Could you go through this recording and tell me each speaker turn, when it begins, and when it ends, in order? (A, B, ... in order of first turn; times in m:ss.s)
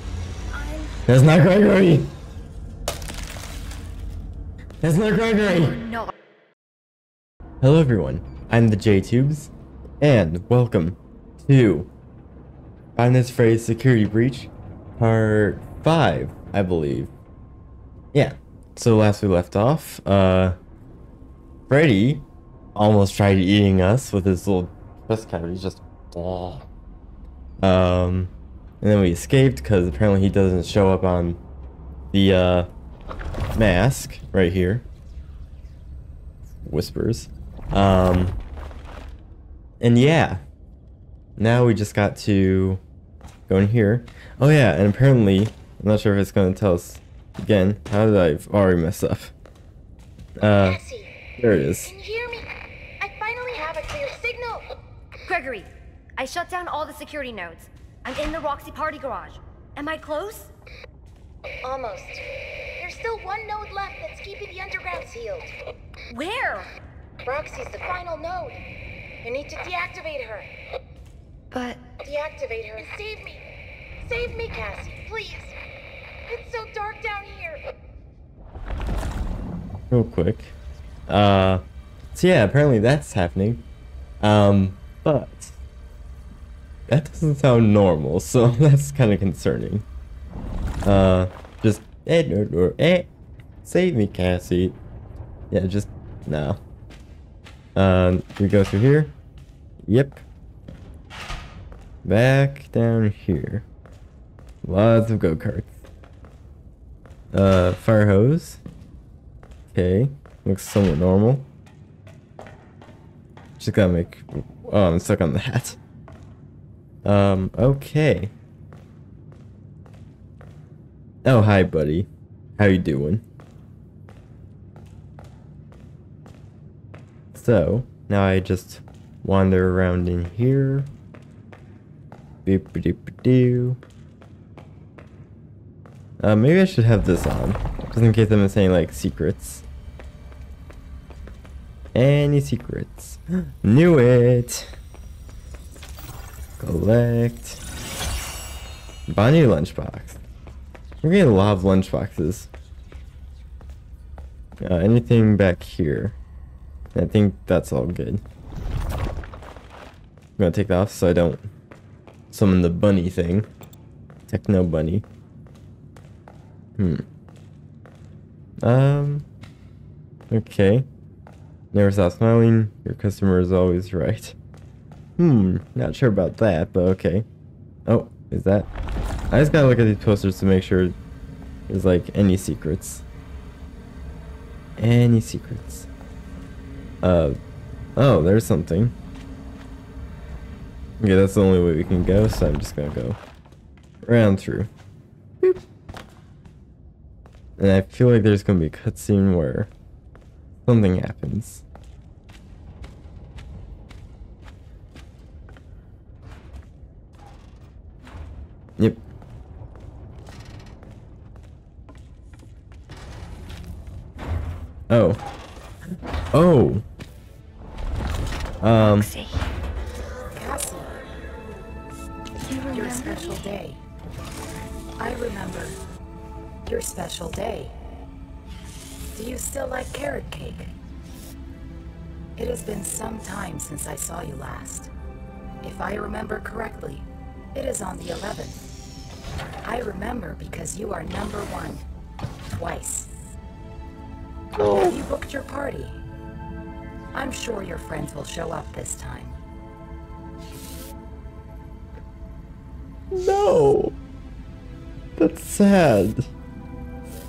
0:00.5-0:01.0 A
0:01.1-0:02.2 B
0:04.8-0:05.8 B
0:05.5-0:06.1 A
0:07.6-0:11.9 B
0:13.0-0:17.1 B
0:18.1-0:20.6 B
0:21.7-0:26.7 B
0:27.6-0:31.4 B
0:32.1-0:32.7 B
0:33.5-0:34.8 B
0:36.6-0:38.4 B
0:39.8-0:40.4 B
0:41.4-0:42.8 B
0:43.5-0:49.3 B
0:50.4-0:50.8 B
0:50.5-0:51.1 C
0:51.4-0:51.9 B
0:51.8-0:54.7 C
0:55.2-1:00.5 A
1:01.6-1:02.2 C
1:02.8-1:05.5 C
1:06.1-1:06.7 A
1:07.2-1:08.6 C
1:09.2-1:10.5 C
1:11.5-1:11.8 A
1:12.0-1:13.4 C
1:14.0-1:15.6 C
1:16.3-1:17.6 C
1:19.9-1:20.5 B
1:21.1-1:23.6 B
1:24.2-1:25.6 B
1:26.9-1:29.8 B
1:30.8-1:33.1 B
1:33.6-1:34.8 B
1:35.5-1:36.6 B
1:37.7-1:39.2 B
1:39.8-1:40.2 B
1:42.0-1:43.6 B
1:44.6-1:45.7 B
1:47.3-1:48.6 B
1:49.7-1:51.5 B
1:53.6-1:55.8 B
1:57.0-1:58.3 B
2:01.2-2:03.2 B
2:07.3-2:10.9 B
2:12.4-2:13.8 B
2:16.2-2:19.6 B
2:21.9-2:24.7 B
2:26.6-2:27.6 B
2:29.1-2:30.2 B
2:31.0-2:32.5 B
2:34.6-2:36.2 B
2:36.9-2:38.2 B
2:40.4-2:41.5 B
2:42.3-2:43.5 B
2:44.3-2:45.0 B
2:46.8-2:47.0 B
2:48.6-2:49.3 B
2:50.3-2:50.9 B
2:51.7-2:54.4 B
2:55.2-2:57.2 B
2:57.8-2:58.7 B
2:59.3-3:00.9 B
3:01.7-3:03.0 B
3:04.8-3:05.9 B
3:07.0-3:07.4 B
3:08.0-3:09.0 B
3:11.0-3:13.2 B
3:14.0-3:14.7 B
3:17.6-3:19.7 B
3:20.6-3:21.6 B
3:28.8-3:29.0 B
3:34.9-3:35.2 B
3:36.3-3:36.8 B
3:38.6-3:39.1 B
3:38.8-3:39.5 A
3:40.3-3:41.0 D
3:42.4-3:43.4 A
3:42.7-3:43.8 D
3:45.0-3:45.8 D
3:46.6-3:47.8 D
3:49.0-3:50.7 D
3:52.4-3:54.9 D
3:55.6-3:58.7 D
3:59.6-4:01.8 D
4:02.5-4:03.2 D
4:04.5-4:05.0 B
4:04.6-4:06.0 D
4:07.1-4:09.4 D
4:13.1-4:13.9 B
4:15.2-4:16.3 B